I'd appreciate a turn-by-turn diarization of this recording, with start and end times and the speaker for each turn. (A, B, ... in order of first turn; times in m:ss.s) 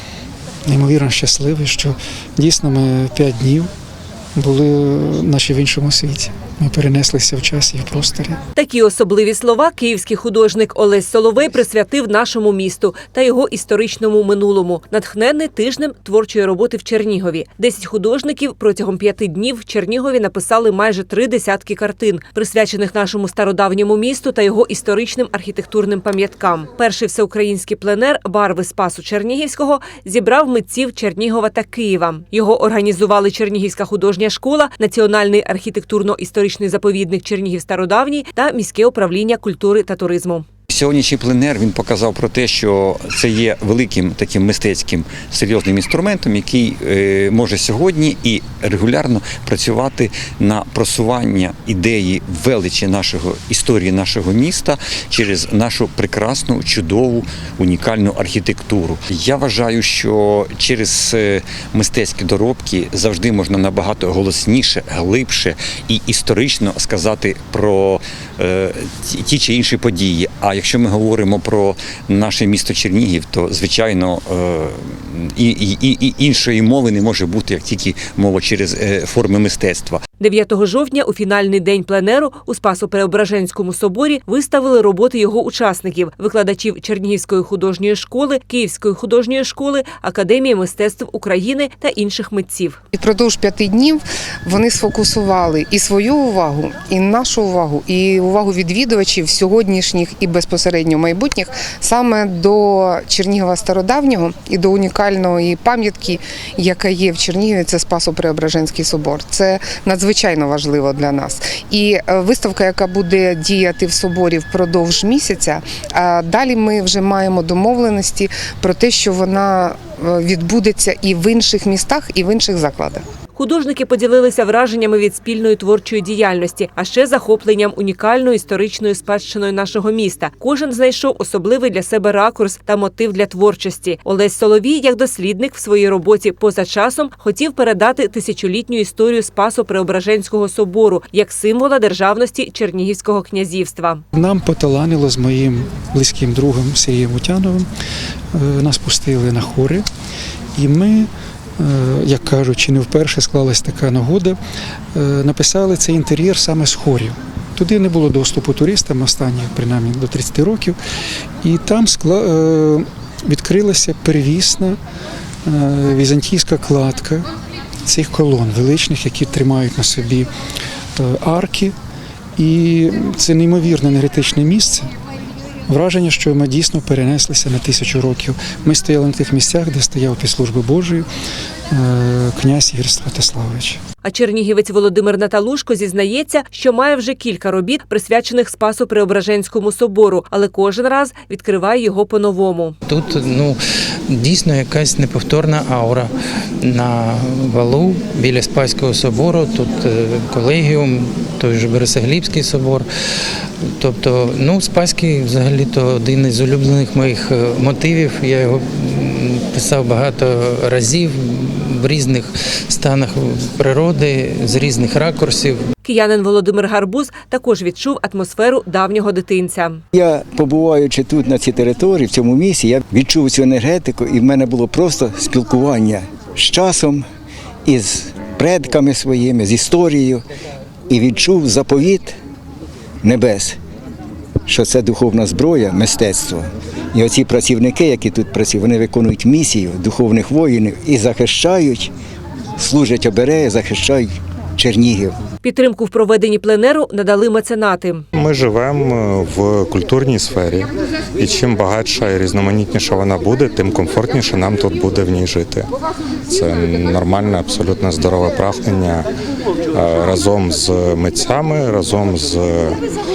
0:00.7-0:03.7 A
0:04.4-0:08.4 A
0:08.6-0:40.4 B
0:40.7-1:20.0 C
1:20.2-1:32.8 B
1:32.9-2:03.0 D
2:03.4-2:24.0 B
2:24.1-2:27.6 A
2:28.3-2:29.8 A
2:30.5-2:34.4 A
2:34.9-2:40.8 A
2:41.4-2:44.8 A
2:45.4-2:47.2 A
2:47.8-2:50.3 A
2:51.0-2:51.7 A
2:52.4-2:54.9 A
2:55.7-3:01.0 A
3:01.7-3:03.8 A
3:04.0-3:12.8 B
3:12.9-3:22.9 E
3:23.6-3:35.7 E
3:35.8-3:39.8 B
3:39.9-3:47.0 F
3:47.6-3:50.2 F
3:50.9-3:52.2 F
3:53.0-3:53.6 F
3:54.5-4:01.9 F
4:02.6-4:05.2 F
4:05.4-4:08.0 B
4:08.1-4:15.7 G
4:16.3-4:19.1 G
4:19.7-4:22.8 G